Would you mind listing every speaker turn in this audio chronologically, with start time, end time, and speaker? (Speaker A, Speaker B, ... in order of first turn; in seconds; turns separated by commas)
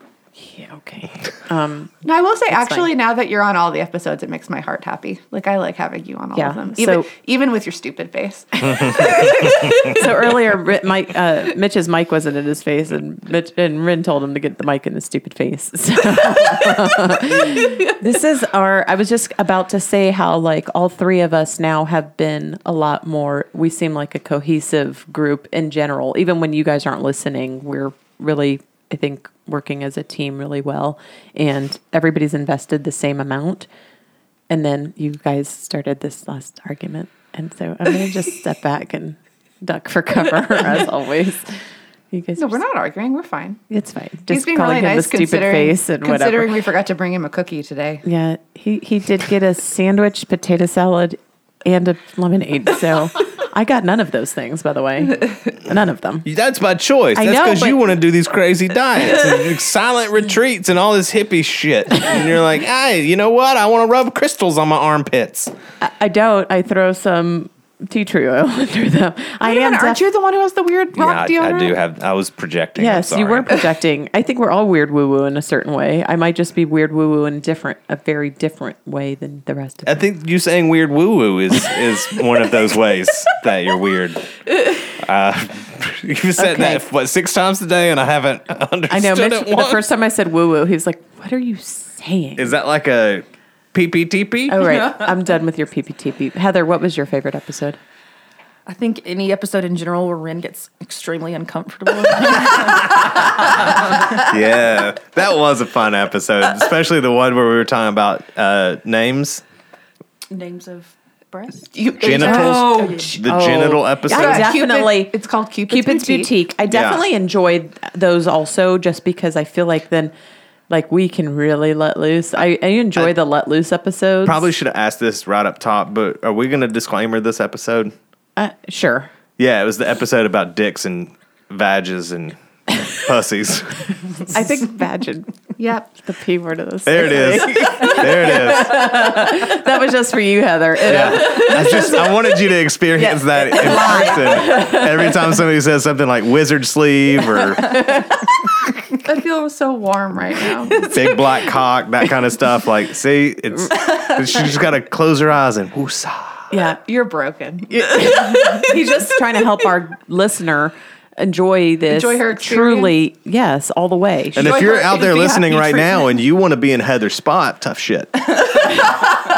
Speaker A: 0.4-1.9, Speaker B: 2.0-9.7, Speaker A: 2.5-2.9, Speaker A: 6.3-7.1, Speaker A: 8.7-33.7, Speaker A: 34.5-41.6, Speaker A: 42.1-42.6, Speaker B: 42.4-43.6, Speaker A: 43.7-46.5, Speaker B: 44.3-48.0, Speaker A: 48.0-56.3, Speaker C: 56.2-65.5, Speaker A: 57.1-57.8, Speaker A: 65.8-70.0, Speaker B: 69.4-71.8, Speaker C: 70.9-73.6, Speaker A: 72.8-80.0, Speaker C: 79.8-84.3, Speaker C: 84.9-89.8, Speaker A: 86.4-86.8, Speaker A: 88.9-92.5, Speaker C: 92.4-94.8, Speaker A: 94.5-97.8, Speaker D: 98.7-104.2, Speaker C: 104.1-109.4, Speaker D: 110.3-113.2, Speaker B: 111.7-113.1, Speaker C: 112.0-114.5, Speaker A: 112.7-115.1, Speaker B: 114.1-116.3, Speaker A: 115.7-120.1, Speaker C: 116.7-117.0, Speaker A: 120.7-124.5, Speaker C: 124.2-127.9, Speaker A: 128.4-129.1, Speaker C: 129.4-134.3, Speaker A: 134.3-135.3, Speaker B: 135.6-135.9, Speaker A: 135.9-142.2, Speaker C: 136.8-138.9, Speaker C: 140.8-147.8, Speaker B: 141.2-141.8, Speaker A: 143.0-145.2, Speaker B: 143.7-144.0, Speaker A: 147.6-148.2, Speaker B: 149.0-150.9, Speaker A: 150.5-150.9, Speaker C: 150.9-156.5, Speaker A: 156.5-156.8, Speaker B: 156.6-158.7, Speaker A: 157.7-164.7, Speaker B: 161.9-162.9, Speaker C: 164.3-168.5, Speaker B: 164.3-166.0